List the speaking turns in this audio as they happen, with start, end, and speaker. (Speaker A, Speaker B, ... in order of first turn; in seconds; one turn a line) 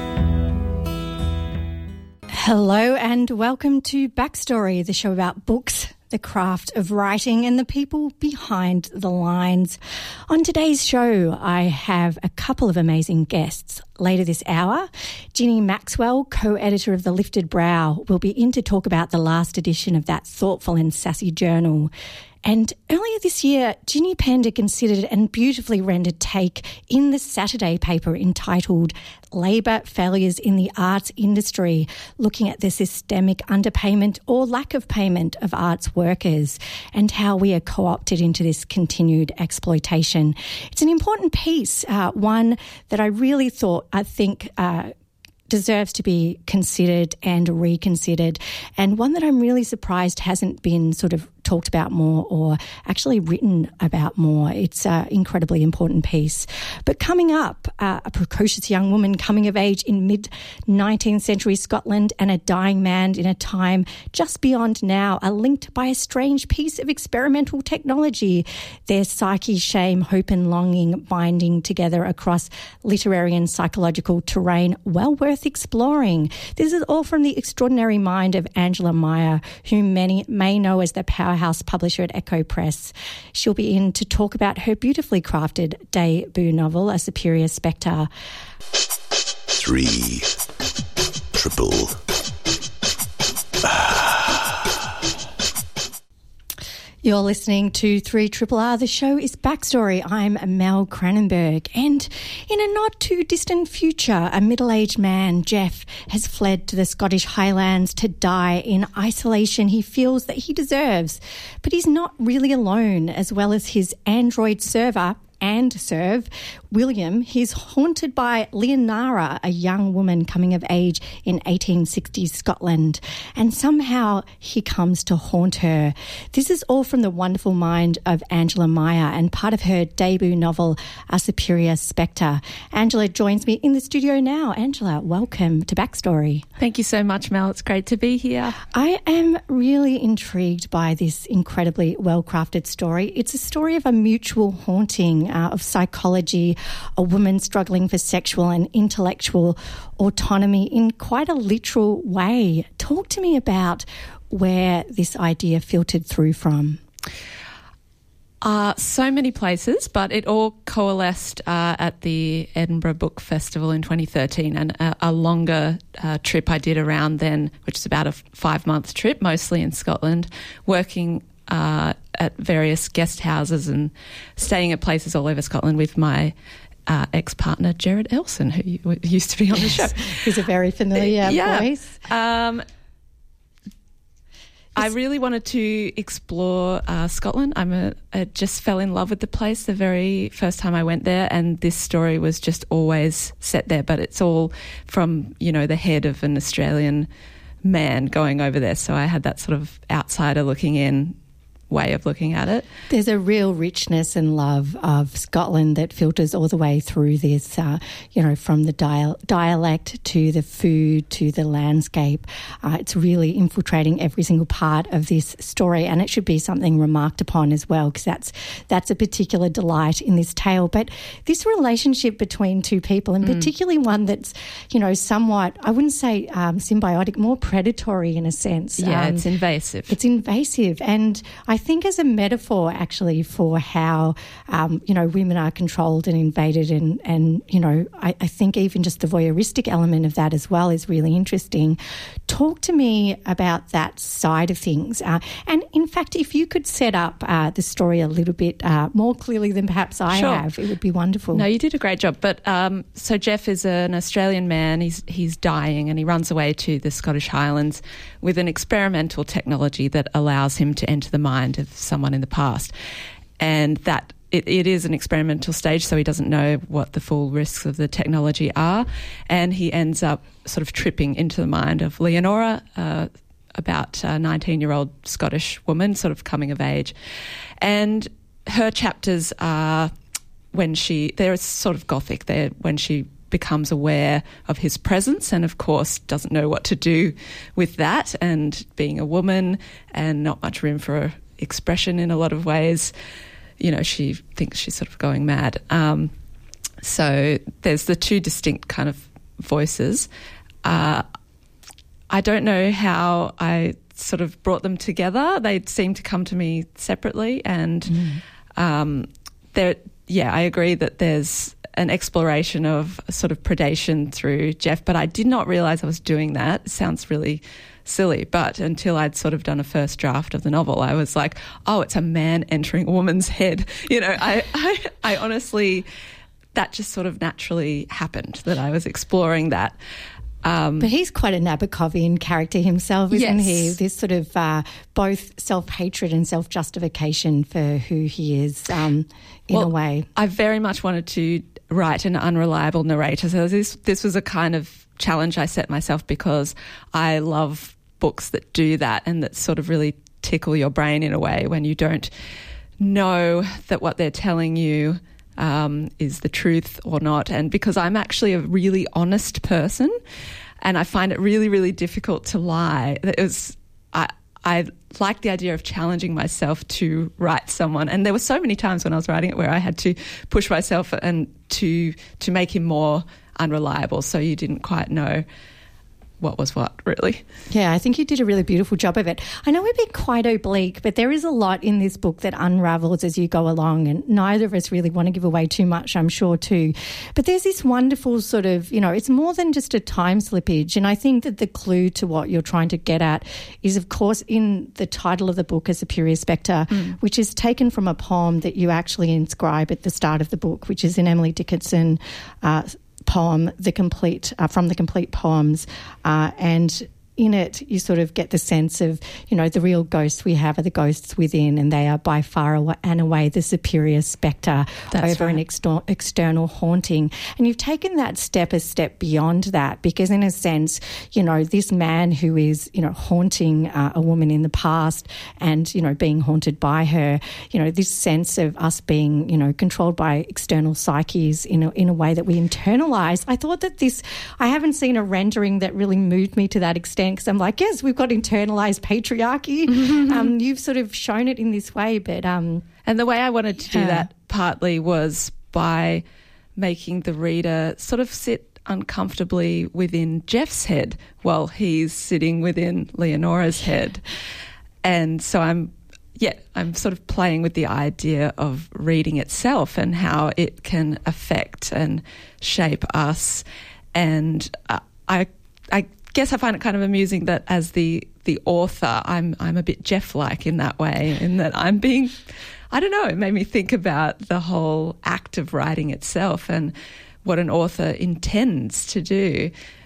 Speaker A: 2.3-9.8
Speaker A: 10.3-21.9
Speaker A: 22.4-44.9
Speaker A: 45.5-88.1
Speaker B: 89.5-90.3
Speaker B: 91.3-92.0
Speaker B: 93.6-94.6
Speaker A: 97.0-136.5
Speaker C: 136.6-138.6
Speaker A: 138.7-156.8
Speaker C: 158.4-176.3
Speaker C: 176.9-180.2
Speaker A: 179.8-182.0
Speaker C: 181.0-182.7
Speaker C: 184.8-197.1
Speaker C: 197.6-201.2
Speaker C: 201.7-202.7
Speaker A: 202.9-229.2
Speaker C: 223.2-223.5
Speaker C: 228.8-230.0
Speaker A: 229.9-251.4
Speaker C: 250.1-250.5
Speaker C: 251.3-262.7
Speaker C: 263.4-276.9
Speaker C: 277.6-279.9
Speaker C: 280.5-292.9
Speaker C: 293.6-296.1
Speaker C: 296.8-300.1
Speaker C: 300.6-301.0
Speaker C: 302.1-325.9
Speaker C: 326.5-329.8
Speaker C: 330.4-330.9
Speaker A: 330.8-340.1
Speaker C: 333.1-333.8
Speaker C: 339.5-352.1
Speaker C: 352.8-359.9
Speaker C: 360.6-375.2
Speaker C: 376.2-377.2
Speaker A: 377.5-442.6
Speaker C: 414.9-415.4
Speaker C: 442.8-446.0
Speaker A: 443.7-444.1
Speaker C: 446.6-454.0
Speaker C: 454.8-476.7
Speaker C: 477.2-479.5